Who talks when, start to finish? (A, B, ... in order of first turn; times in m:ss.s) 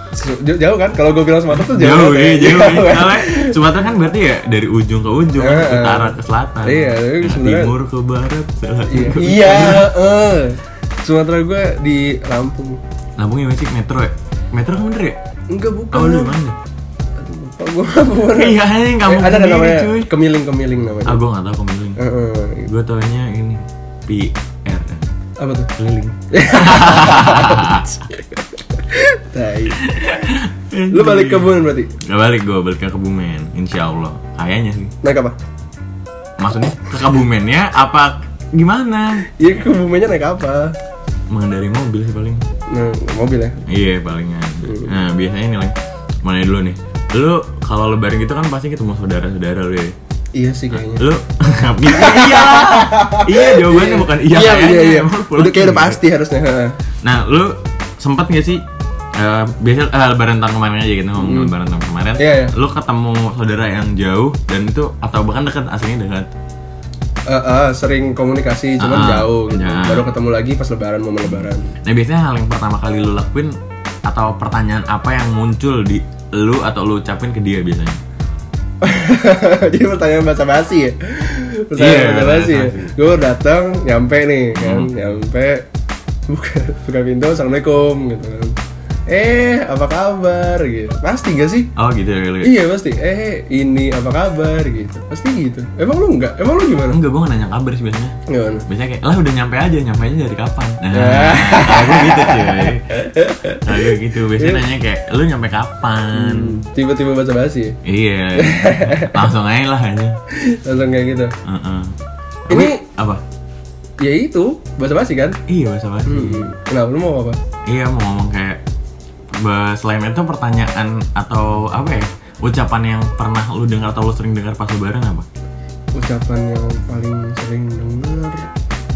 0:00.1-0:03.6 A
0:01.5-0:09.9 B
0:05.4-0:07.7 A
0:08.9-0:12.8 A
0:13.2-0:15.2 B
0:15.5-0:16.3 A
0:15.9-0:16.6 B
0:17.2-0:21.2 A
0:18.3-0:20.1 B
0:21.0-0:22.0 B
0:22.0-0:22.7 A
0:22.6-0:25.1 B
0:25.4-0:25.7 A
0:25.8-0:28.0 B
0:26.3-0:29.9 A
0:29.7-0:34.9 B
0:30.9-0:31.9 A
0:35.0-0:35.3 A
0:36.4-0:39.3 B
0:39.3-0:40.7 A
0:41.3-0:42.4 B
0:42.7-0:43.6 A
0:43.7-0:50.0 B
0:44.6-0:44.9 A
0:50.3-0:51.1 A
0:50.7-0:56.0 B
0:51.8-0:56.7 A
0:57.0-0:58.6 B
0:59.1-1:06.3 B
1:01.2-1:01.5 A
1:02.2-1:02.5 A
1:07.3-1:11.7 A
1:08.8-1:10.1 B
1:11.2-1:18.0 B
1:18.8-1:25.6 A
1:21.8-1:23.0 B
1:24.5-1:24.9 B
1:26.3-1:28.6 A
1:29.1-1:31.7 A
1:31.7-1:32.5 B
1:32.4-1:37.0 A
1:36.9-1:38.2 B
1:38.3-1:38.6 A
1:38.7-1:46.6 B
1:40.9-1:44.6 A
1:46.1-1:47.8 A
1:47.8-1:50.2 B
1:48.4-1:49.2 A
1:50.3-1:51.3 A
1:51.4-1:51.9 B
1:52.5-1:53.2 B
1:52.5-1:52.8 A
1:54.0-1:55.4 A
1:55.5-1:56.5 B
1:56.1-1:57.4 A
1:57.6-1:58.6 B
1:59.3-2:05.2 B
2:05.9-2:08.5 A